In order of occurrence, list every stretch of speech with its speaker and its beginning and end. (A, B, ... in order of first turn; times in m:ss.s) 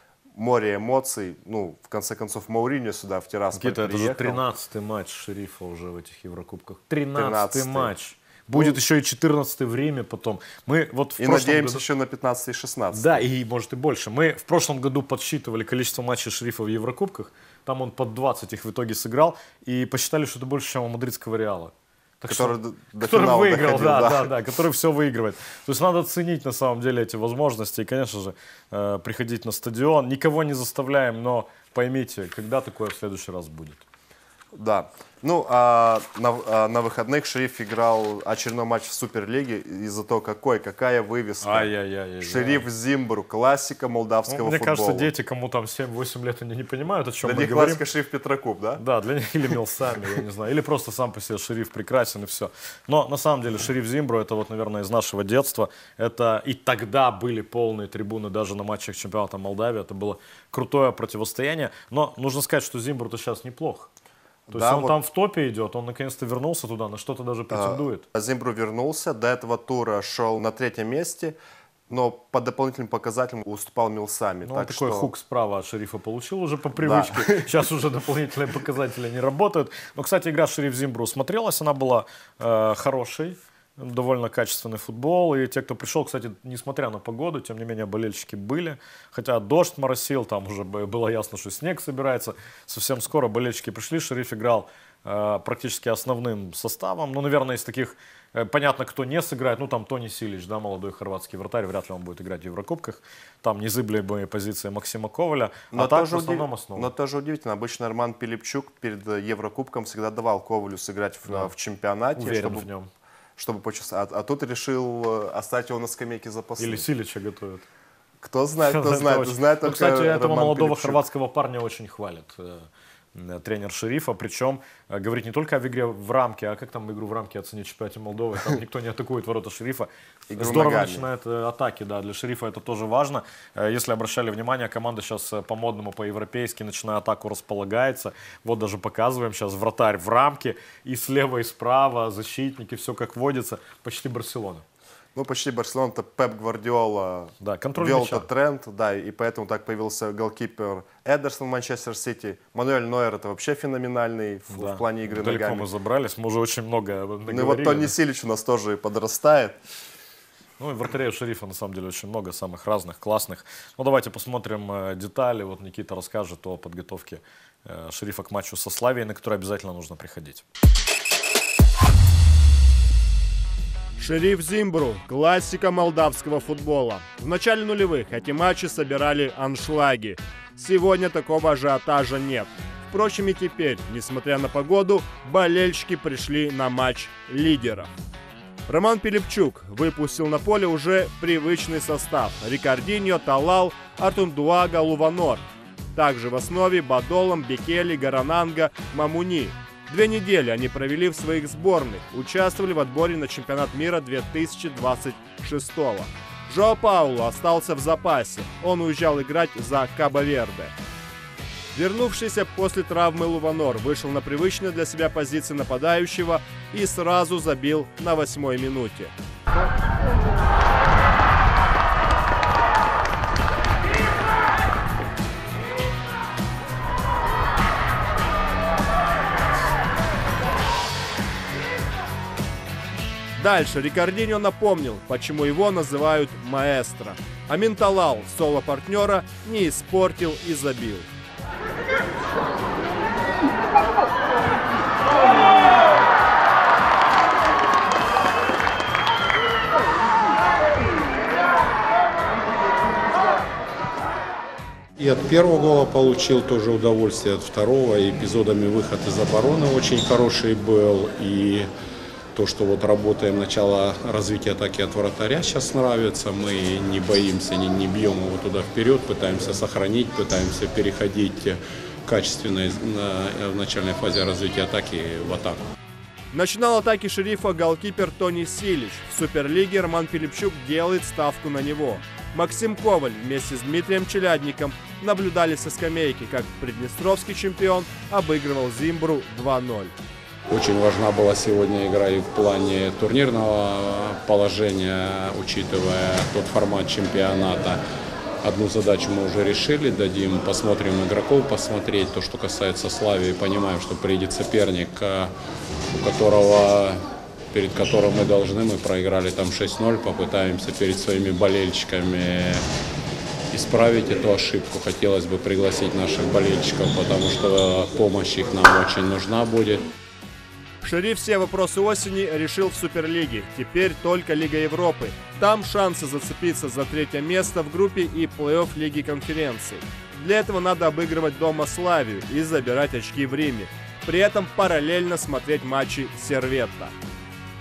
0:00.3-0:04.4 A
0:03.5-0:11.8 B
0:07.1-0:07.9 A
0:08.5-0:08.8 A
0:11.2-0:13.2 A
0:12.9-0:33.8 B
0:22.3-0:24.3 A
0:34.5-0:41.7 A
0:41.4-0:42.6 B
0:42.2-0:45.1 A
0:44.3-0:47.8 B
0:47.2-0:48.8 A
0:48.8-1:03.9 B
1:04.5-1:04.9 A
1:04.5-1:08.0 B
1:07.5-1:11.4 A
1:11.9-1:15.1 A
1:14.4-1:46.9 B
1:16.8-1:17.7 A
1:45.7-1:52.7 A
1:52.2-1:52.9 B
1:53.4-1:56.8 A
1:56.6-1:57.7 B
1:58.2-2:01.0 A
1:58.7-2:24.6 B
2:10.3-2:11.0 A
2:25.2-2:35.7 A
2:27.4-2:28.3 B
2:34.5-2:37.9 B
2:37.3-2:39.6 A
2:40.6-2:50.4 B
2:54.0-3:07.9 C
3:08.7-3:15.4 C
3:15.9-3:30.7 C
3:31.7-3:39.1 C
3:53.4-4:01.1 C
4:15.0-4:21.7 D
4:22.3-4:35.7 D
4:36.3-4:49.9 C
4:50.5-4:57.8 D
4:58.4-5:05.3 D
5:05.9-5:12.6 D
5:13.5-5:19.9 D
5:20.8-5:36.9 C